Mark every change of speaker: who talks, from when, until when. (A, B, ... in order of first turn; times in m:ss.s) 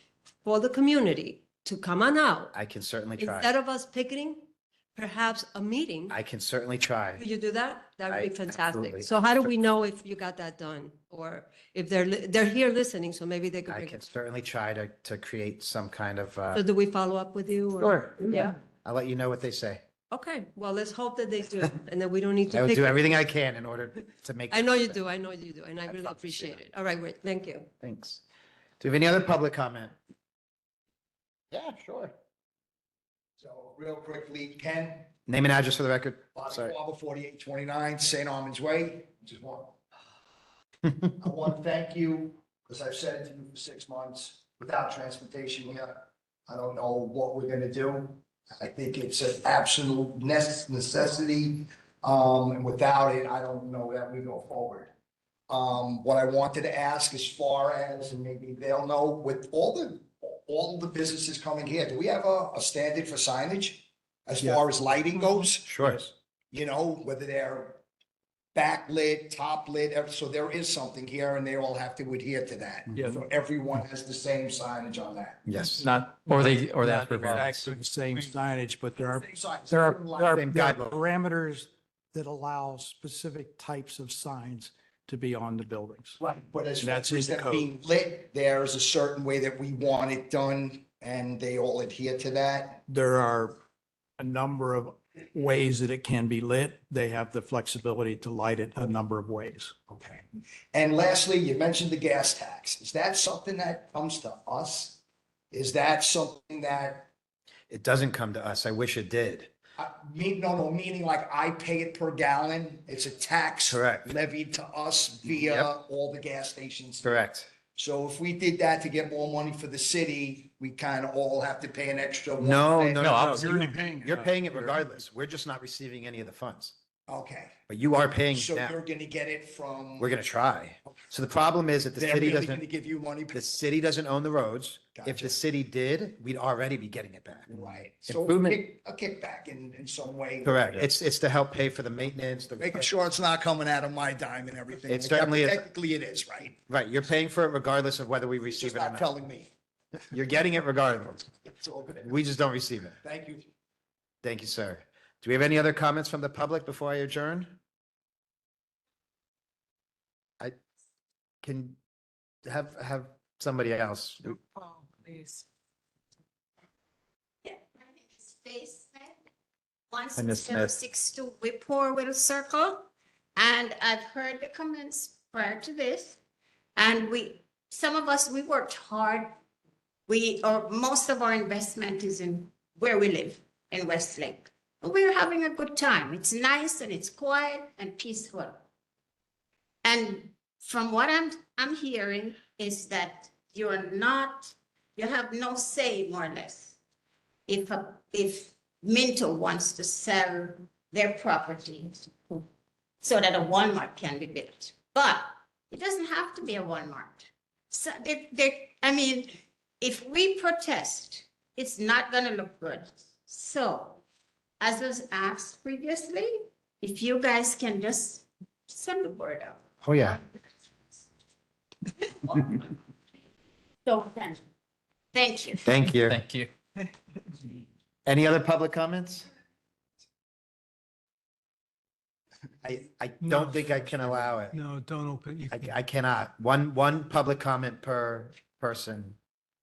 0:00.4-0:02.5 A
0:02.5-0:03.5 B
0:03.2-0:06.2 A
0:06.1-0:07.2 B
0:07.2-0:14.0 A
0:08.1-0:09.1 B
0:13.7-0:16.6 B
0:16.5-0:18.5 A
0:17.8-0:19.8 B
0:20.1-0:23.1 A
0:22.5-0:25.0 B
0:24.5-0:27.7 A
0:25.9-0:26.6 B
0:27.8-0:28.2 B
0:28.8-0:29.9 B
0:31.5-0:32.1 B
0:33.4-0:35.1 C
0:35.3-0:36.7 B
0:36.4-0:39.8 C
0:41.2-0:54.9 C
0:55.5-1:05.8 C
1:05.6-1:06.1 B
1:06.5-1:07.8 C
1:08.5-1:15.4 C
1:12.9-1:13.3 D
1:15.4-1:15.8 B
1:15.8-1:26.2 D
1:16.2-1:17.5 E
1:19.2-1:20.4 C
1:20.3-1:21.0 B
1:26.2-1:32.8 C
1:26.8-1:27.7 D
1:32.9-1:33.6 D
1:34.2-1:39.8 D
1:40.7-1:45.0 C
1:45.5-1:47.1 C
1:47.7-1:49.5 B
1:49.8-1:57.1 C
1:53.7-1:54.1 B
1:55.3-1:55.7 B
1:57.0-1:57.5 B
1:57.8-2:03.8 C
2:02.4-2:06.7 B
2:03.0-2:03.5 E
2:03.3-2:04.8 D
2:07.1-2:07.6 C
2:07.7-2:08.8 B
2:08.3-2:10.1 C
2:10.0-2:12.6 B
2:12.0-2:13.4 C
2:13.3-2:18.6 B
2:15.0-2:15.3 C
2:17.5-2:20.8 C
2:20.4-2:22.9 B
2:22.6-2:26.6 C
2:24.9-2:25.6 B
2:26.7-2:29.1 B
2:28.5-2:29.5 C
2:30.1-2:31.3 B
2:31.4-2:32.1 C
2:32.0-2:33.0 B
2:33.0-2:33.5 C
2:34.2-2:37.6 B
2:41.4-2:41.8 B
2:42.4-2:44.4 B
2:47.4-2:49.2 F
2:49.9-2:56.2 F
2:50.2-2:50.7 B
2:56.8-2:59.3 F
3:00.1-3:08.6 F
3:09.8-3:16.8 F
3:17.5-3:22.4 F
3:23.0-3:34.0 F
3:34.6-3:40.2 F
3:39.8-3:40.2 B
3:42.2-3:42.7 F
3:43.8-3:44.4 F
3:45.1-3:45.6 F
3:45.6-3:46.2 B
3:45.8-3:46.5 E
3:48.0-3:49.3 B
3:52.6-3:54.6 B
3:53.2-3:55.7 G
3:55.5-3:59.2 B